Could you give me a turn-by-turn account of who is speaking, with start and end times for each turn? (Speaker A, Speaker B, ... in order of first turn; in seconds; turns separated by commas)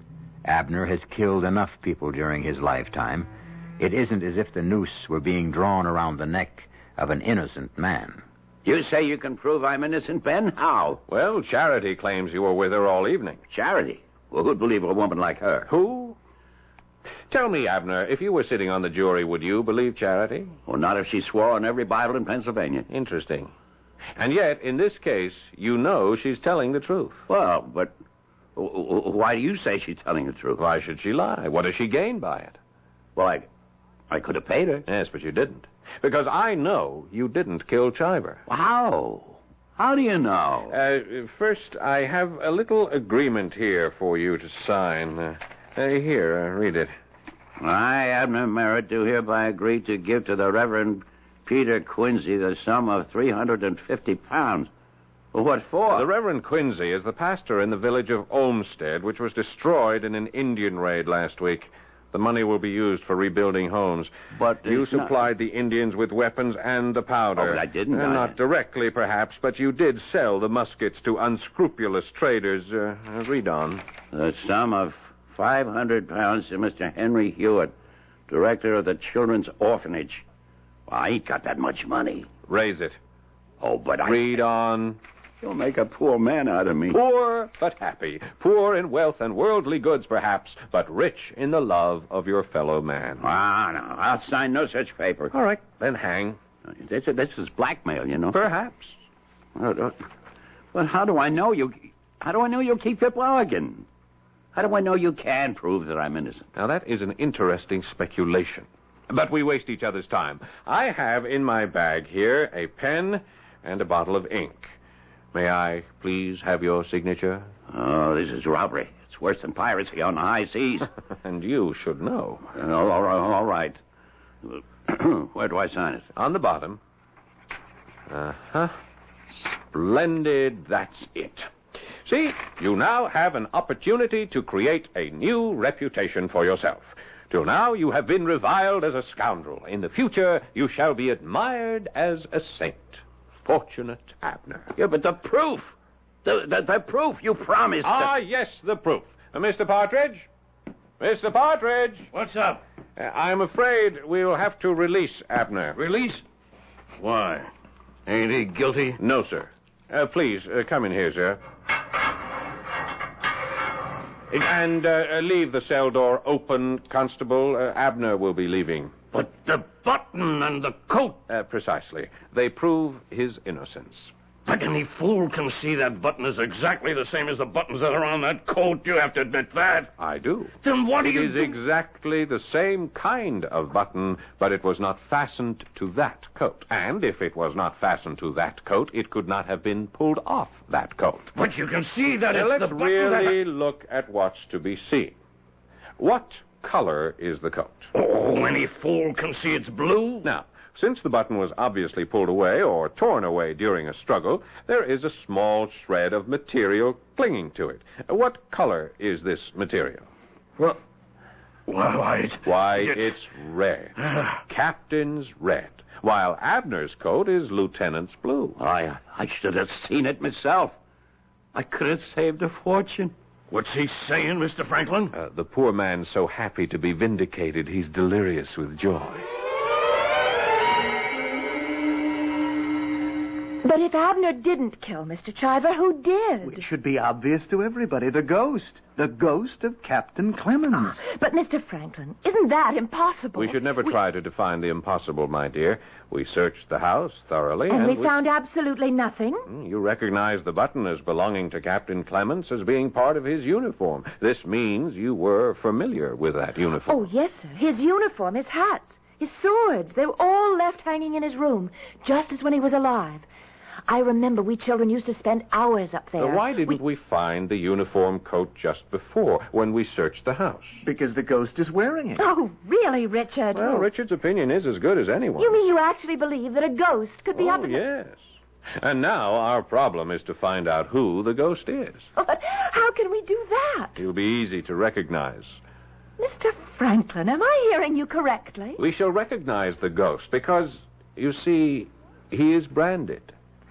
Speaker A: 0.4-8.2, Speaker B: 8.6-11.0, Speaker C: 11.1-13.4, Speaker B: 13.5-15.7, Speaker C: 15.7-16.1, Speaker C: 17.3-20.6, Speaker B: 20.7-22.9, Speaker C: 22.9-23.5, Speaker C: 24.1-27.2, Speaker B: 27.3-27.9, Speaker B: 28.6-30.6, Speaker C: 30.6-32.6, Speaker B: 33.1-33.5, Speaker B: 34.1-34.8, Speaker C: 34.9-38.4, Speaker B: 38.5-40.7, Speaker C: 40.7-46.9, Speaker B: 47.6-54.7, Speaker B: 55.3-56.1, Speaker C: 55.9-64.1, Speaker B: 64.3-65.2, Speaker C: 64.6-73.8, Speaker B: 67.3-68.3, Speaker B: 74.1-77.7, Speaker B: 78.3-80.2, Speaker B: 80.9-82.3, Speaker C: 82.5-83.0, Speaker B: 83.6-84.4, Speaker C: 84.0-85.0, Speaker B: 85.4-87.0, Speaker C: 86.9-93.2, Speaker B: 93.2-95.3, Speaker C: 95.3-96.4, Speaker B: 96.7-98.4, Speaker C: 98.3-99.0, Speaker B: 99.5-100.1, Speaker B: 100.7-103.9, Speaker B: 104.5-106.5, Speaker C: 106.5-114.7, Speaker C: 115.3-117.5, Speaker B: 117.7-120.9, Speaker C: 121.2-122.5, Speaker B: 122.5-123.8, Speaker B: 124.4-126.1, Speaker C: 126.1-126.8, Speaker C: 128.1-128.7, Speaker C: 129.3-131.5, Speaker C: 132.0-144.7, Speaker B: 144.7-148.1, Speaker C: 147.8-150.3, Speaker C: 151.0-152.1, Speaker D: 152.1-152.6, Speaker C: 153.0-155.8, Speaker D: 155.7-156.2, Speaker D: 157.0-157.5, Speaker D: 158.1-159.0, Speaker C: 159.0-161.4, Speaker C: 164.3-169.0, Speaker D: 169.1-171.2, Speaker C: 171.3-174.1, Speaker D: 174.5-179.9, Speaker C: 180.0-191.3, Speaker D: 180.6-181.6, Speaker D: 191.3-193.4, Speaker C: 192.3-195.1, Speaker C: 196.0-197.9, Speaker D: 197.9-200.3, Speaker C: 200.2-210.1, Speaker D: 211.7-213.2, Speaker C: 212.4-213.9, Speaker D: 214.0-214.4, Speaker C: 214.5-218.6, Speaker B: 218.6-220.8, Speaker B: 221.5-223.1, Speaker D: 223.5-225.1, Speaker C: 225.1-229.2, Speaker E: 233.6-236.6, Speaker F: 236.4-241.0, Speaker E: 240.7-244.0, Speaker C: 243.3-248.1, Speaker E: 247.7-249.5, Speaker C: 249.5-257.0, Speaker E: 256.9-263.2, Speaker E: 263.9-266.8, Speaker C: 266.2-270.8, Speaker F: 270.8-272.2, Speaker E: 272.2-273.9, Speaker C: 273.5-275.6, Speaker E: 275.4-277.8, Speaker C: 277.3-278.2, Speaker C: 278.8-282.1, Speaker E: 282.2-284.0, Speaker C: 284.0-285.6, Speaker E: 286.2-288.8, Speaker C: 288.8-293.3